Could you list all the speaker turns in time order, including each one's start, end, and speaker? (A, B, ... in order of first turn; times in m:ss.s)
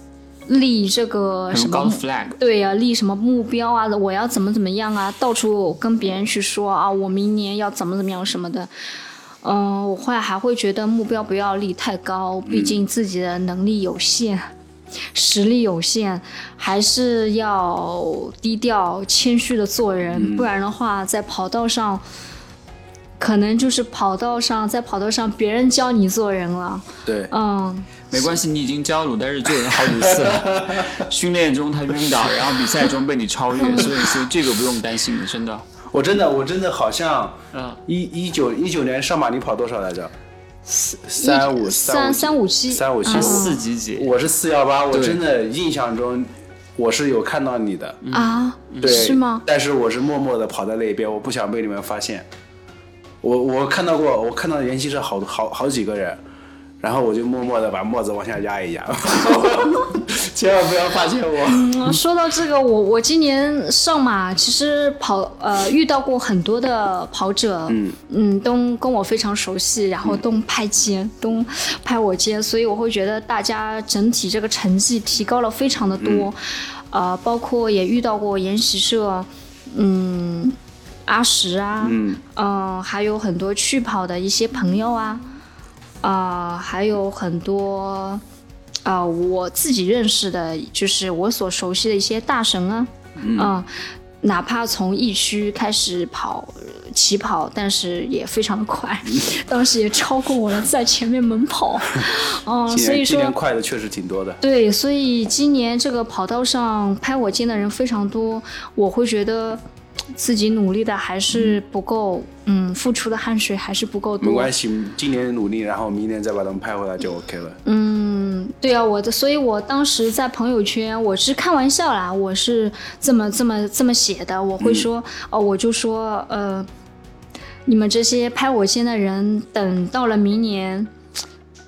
0:00.5-0:08.7 A
0:01.5-0:02.3 B
0:09.4-0:14.5 A
0:12.5-0:12.8 C
0:15.1-0:22.0 A
0:20.1-0:20.5 C
0:23.2-0:28.0 A
0:27.0-0:27.3 C
0:28.1-0:35.6 B
0:29.6-0:31.1 C
0:33.6-0:34.0 A
0:35.9-0:40.1 C
0:37.5-0:37.8 B
0:40.7-0:43.6 A
0:41.1-0:48.0 C
0:43.0-0:44.1 B
0:44.9-0:45.2 B
0:48.0-0:49.0 B
0:48.1-0:49.4 A
0:48.8-0:52.2 C
0:53.2-0:56.2 C
0:56.8-1:01.8 C
1:01.4-1:16.4 A
1:07.7-1:08.0 C
1:16.0-1:16.3 C
1:16.9-1:20.6 A
1:21.1-1:25.2 A
1:21.8-1:22.2 C
1:26.0-1:28.2 A
1:28.8-1:33.7 A
1:33.2-1:33.5 C
1:34.2-1:43.3 A
1:42.7-1:44.4 C
1:44.4-1:49.6 A
1:50.1-1:54.5 A
1:51.3-1:51.6 C
1:54.2-1:57.6 C
1:57.6-2:06.7 A
2:04.6-2:04.9 C
2:07.6-2:10.9 A